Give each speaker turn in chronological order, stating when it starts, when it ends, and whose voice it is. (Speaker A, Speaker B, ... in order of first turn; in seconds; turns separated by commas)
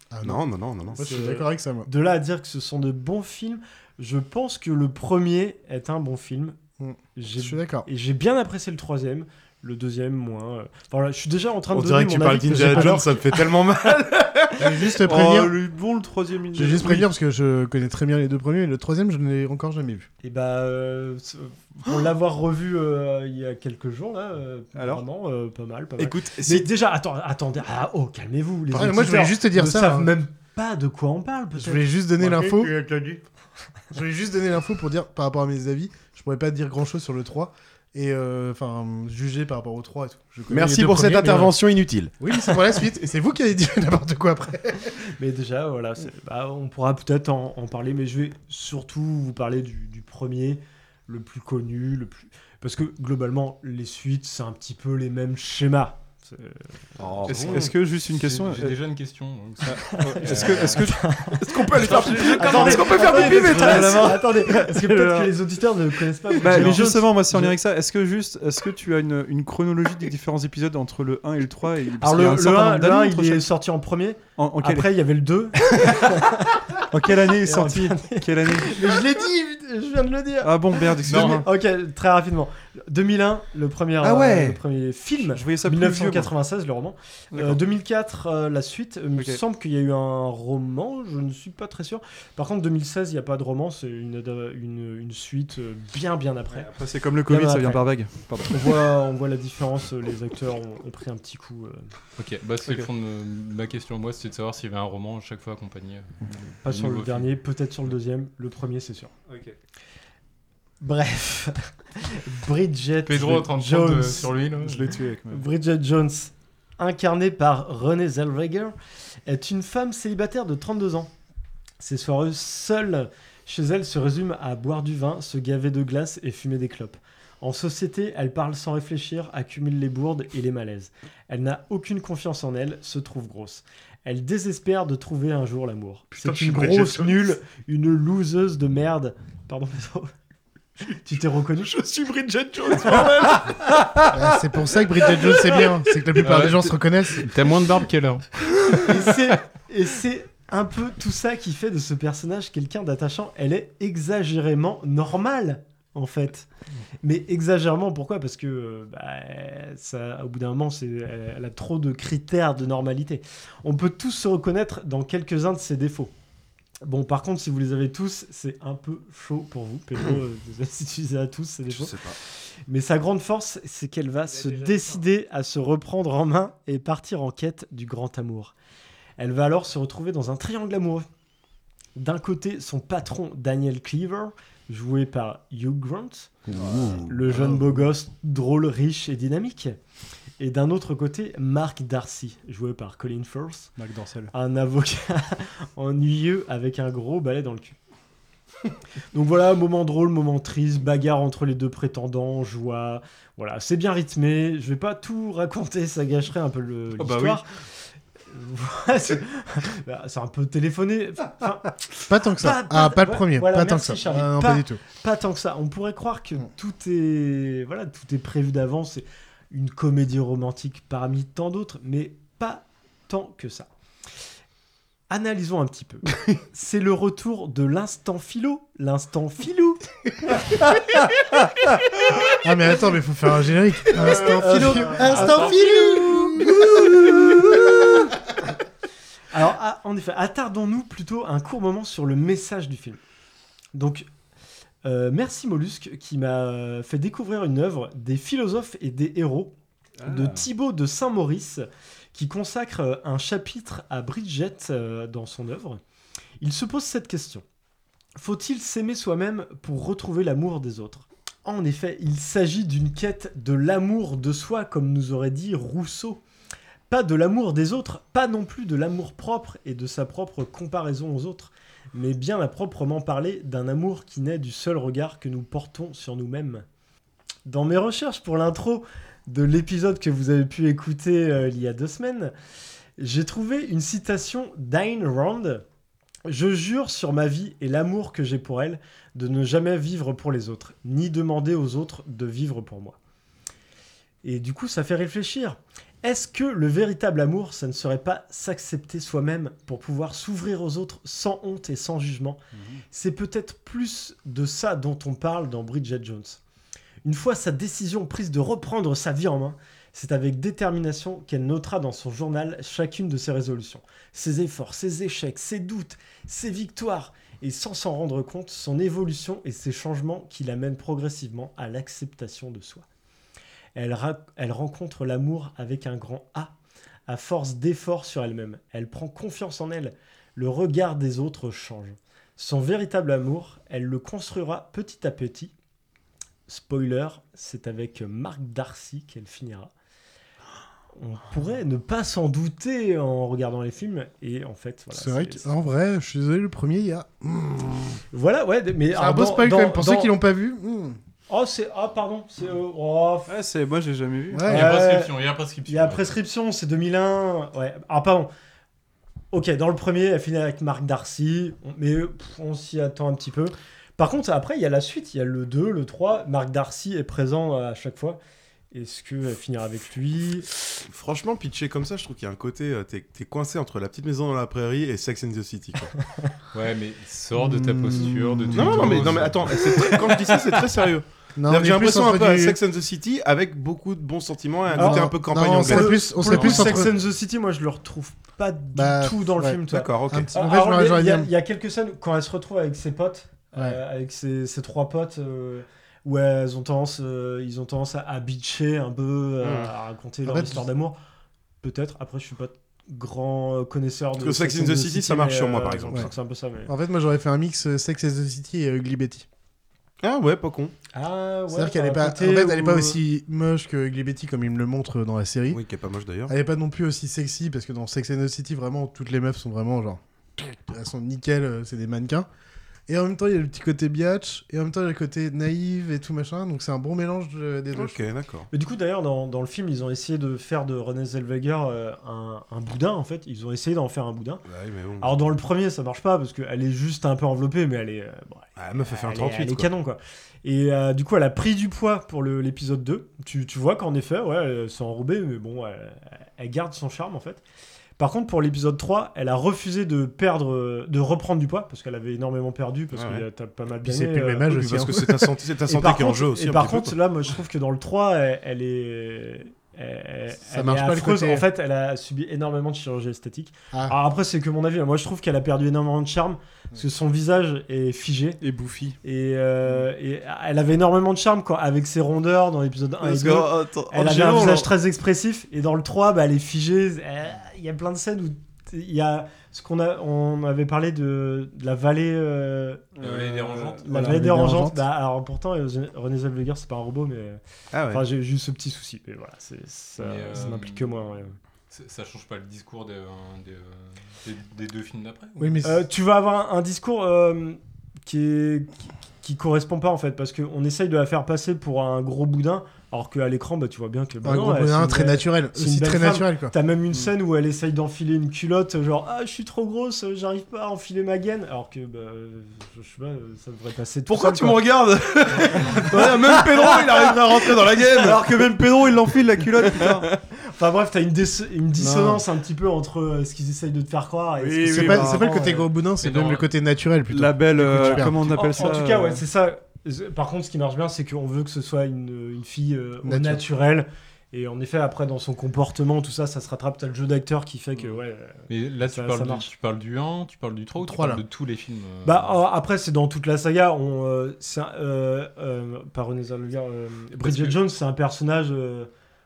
Speaker A: 0.1-1.9, Speaker B: 0.2-1.0, Speaker C: 1.0-6.6, Speaker A: 6.8-7.9, Speaker C: 7.1-13.3, Speaker B: 11.7-14.7, Speaker A: 12.5-13.0, Speaker A: 14.6-15.6, Speaker D: 15.0-17.1, Speaker A: 16.5-20.1, Speaker C: 20.2-32.0, Speaker D: 24.8-25.0, Speaker B: 26.0-26.7, Speaker A: 28.7-30.1, Speaker A: 31.6-32.8, Speaker D: 32.2-33.1, Speaker A: 33.9-41.6, Speaker B: 40.5-42.1, Speaker A: 42.2-45.0, Speaker C: 45.0-57.7, Speaker B: 57.0-57.8, Speaker D: 57.3-58.8, Speaker E: 58.1-60.9, Speaker D: 59.6-65.4, Speaker C: 59.8-67.6, Speaker B: 61.4-64.0, Speaker D: 66.3-73.5, Speaker C: 72.0-76.8, Speaker D: 74.4-74.9, Speaker D: 75.7-76.1, Speaker D: 76.9-79.0, Speaker C: 77.4-96.7, Speaker D: 80.4-81.5, Speaker E: 81.1-81.4, Speaker D: 84.0-84.6, Speaker D: 85.2-86.3, Speaker D: 87.3-87.6, Speaker D: 89.2-89.4, Speaker D: 96.5-98.9, Speaker C: 97.2-97.9, Speaker C: 98.5-101.8, Speaker E: 102.2-107.3, Speaker C: 106.6-109.1, Speaker D: 109.3-109.5, Speaker C: 110.8-114.3, Speaker E: 113.0-115.0, Speaker D: 114.5-115.4, Speaker C: 115.3-118.7, Speaker C: 119.3-121.1, Speaker C: 121.8-140.1, Speaker B: 136.2-137.3, Speaker C: 140.8-141.8, Speaker B: 141.7-143.5, Speaker C: 142.8-143.4, Speaker A: 144.1-147.3, Speaker E: 146.2-148.4, Speaker C: 148.8-156.5, Speaker C: 157.0-166.1, Speaker C: 166.8-178.5, Speaker B: 171.7-172.2, Speaker C: 179.2-181.0, Speaker C: 181.9-189.8, Speaker D: 186.5-187.8, Speaker A: 186.6-186.9, Speaker C: 190.4-193.7, Speaker D: 193.8-194.3, Speaker C: 194.3-197.8, Speaker C: 199.1-207.5, Speaker B: 207.0-207.4, Speaker C: 208.3-211.8, Speaker A: 212.0-214.8, Speaker C: 212.3-223.7, Speaker C: 225.1-230.4, Speaker A: 232.4-236.7, Speaker B: 234.0-237.6, Speaker C: 234.2-235.6, Speaker E: 235.2-235.6, Speaker C: 239.3-243.0, Speaker C: 243.7-244.1, Speaker C: 244.8-249.5, Speaker D: 250.0-250.5, Speaker C: 250.0-255.8, Speaker C: 256.4-257.4, Speaker C: 258.1-266.2, Speaker C: 266.9-276.6, Speaker C: 277.4-282.3, Speaker C: 283.0-285.6, Speaker C: 286.2-292.9, Speaker C: 294.2-302.4, Speaker D: 302.5-302.8, Speaker C: 302.9-306.4, Speaker C: 307.0-322.8, Speaker C: 323.8-326.5, Speaker C: 327.1-335.5, Speaker C: 336.5-339.7, Speaker C: 340.9-345.5, Speaker A: 344.9-348.0, Speaker C: 348.1-350.1, Speaker A: 348.9-351.0, Speaker C: 351.3-353.3, Speaker D: 353.3-354.5, Speaker A: 354.3-354.8, Speaker C: 354.4-355.1, Speaker E: 354.5-356.2, Speaker C: 355.6-358.3, Speaker C: 359.3-368.2, Speaker C: 368.7-370.5, Speaker B: 370.8-375.9, Speaker E: 376.5-379.5, Speaker A: 377.3-379.4, Speaker B: 378.5-386.0, Speaker C: 379.8-380.3, Speaker A: 381.4-382.6, Speaker A: 384.7-386.9, Speaker C: 384.7-400.9, Speaker E: 386.3-386.8, Speaker A: 388.7-391.3, Speaker B: 389.7-390.3, Speaker B: 399.4-399.7, Speaker A: 400.2-400.6, Speaker C: 401.6-406.7, Speaker B: 404.1-406.1, Speaker A: 406.7-409.2, Speaker B: 410.0-410.7, Speaker C: 410.9-413.0, Speaker A: 411.5-415.6, Speaker B: 415.5-416.3, Speaker A: 416.3-422.3, Speaker A: 422.9-428.1, Speaker B: 427.7-428.5, Speaker C: 428.5-434.4, Speaker B: 434.5-435.2, Speaker C: 435.0-447.4, Speaker B: 438.6-439.7, Speaker C: 448.0-454.5, Speaker B: 452.9-453.2, Speaker A: 453.8-455.4, Speaker B: 454.5-456.9, Speaker C: 455.7-468.4, Speaker A: 460.5-461.4, Speaker A: 463.7-464.0, Speaker D: 468.4-468.9, Speaker C: 469.0-482.9, Speaker B: 473.0-474.7, Speaker D: 482.9-484.4, Speaker E: 483.0-483.9, Speaker C: 483.8-487.4, Speaker A: 483.9-484.8, Speaker B: 487.7-488.0, Speaker C: 487.9-491.4, Speaker E: 490.0-491.0, Speaker E: 491.7-495.6, Speaker A: 495.4-495.8, Speaker C: 495.6-514.6, Speaker A: 504.2-506.5, Speaker B: 514.1-518.4, Speaker C: 515.4-516.8, Speaker D: 517.9-520.1, Speaker B: 519.5-520.0, Speaker C: 520.4-525.7, Speaker D: 524.4-525.5, Speaker A: 524.6-528.4, Speaker E: 526.0-526.5, Speaker D: 527.1-529.2, Speaker C: 527.8-539.5, Speaker A: 533.0-533.4, Speaker E: 538.5-542.4, Speaker A: 540.8-541.2, Speaker C: 542.0-548.9, Speaker E: 547.2-547.6